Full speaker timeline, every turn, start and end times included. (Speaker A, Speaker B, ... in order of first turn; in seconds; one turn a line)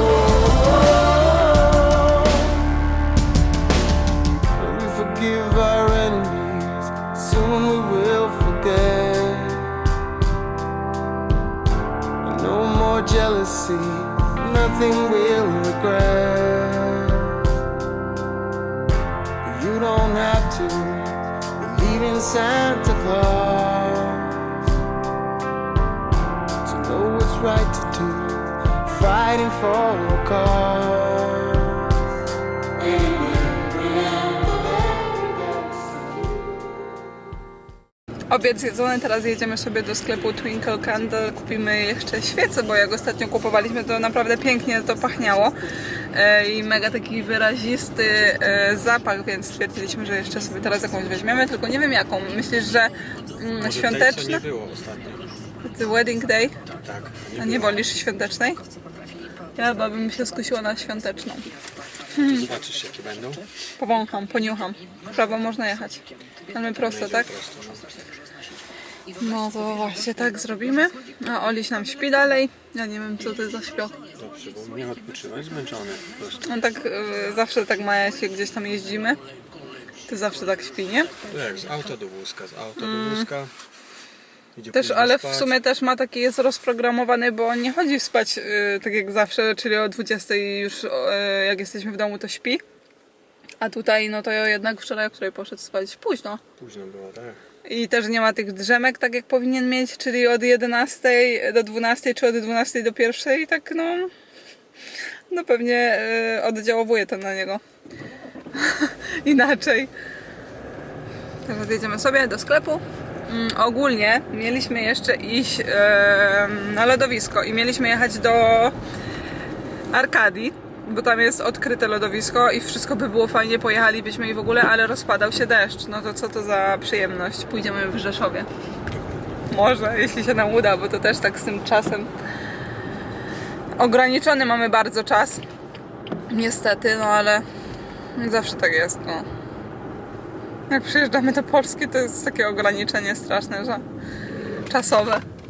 Speaker A: 4.6-9.7
Speaker A: 12.2-17.4
Speaker A: 19.4-24.4
Speaker A: 26.6-31.9
Speaker A: 32.9-35.7
Speaker B: 38.3-45.5
Speaker B: 46.1-54.4
Speaker C: 53.6-55.3
Speaker B: 55.6-56.5
Speaker C: 56.8-57.8
Speaker B: 57.4-58.6
Speaker B: 59.5-61.5
Speaker B: 62.1-62.5
Speaker C: 62.2-63.4
Speaker B: 63.8-67.3
Speaker C: 66.8-67.8
Speaker B: 69.2-74.0
Speaker C: 74.2-76.4
Speaker B: 76.4-79.2
Speaker B: 80.1-81.1
Speaker C: 81.3-83.5
Speaker B: 82.8-83.3
Speaker C: 84.5-85.5
Speaker B: 84.7-92.6
Speaker B: 93.6-96.4
Speaker C: 96.6-97.4
Speaker B: 97.7-104.1
Speaker B: 105.3-107.6
Speaker B: 108.5-109.9
Speaker B: 111.4-118.7
Speaker B: 119.9-128.5
Speaker B: 129.5-132.1
Speaker B: 133.8-135.4
Speaker B: 136.3-137.4
Speaker B: 138.2-139.2
Speaker B: 140.7-143.8
Speaker B: 144.7-145.2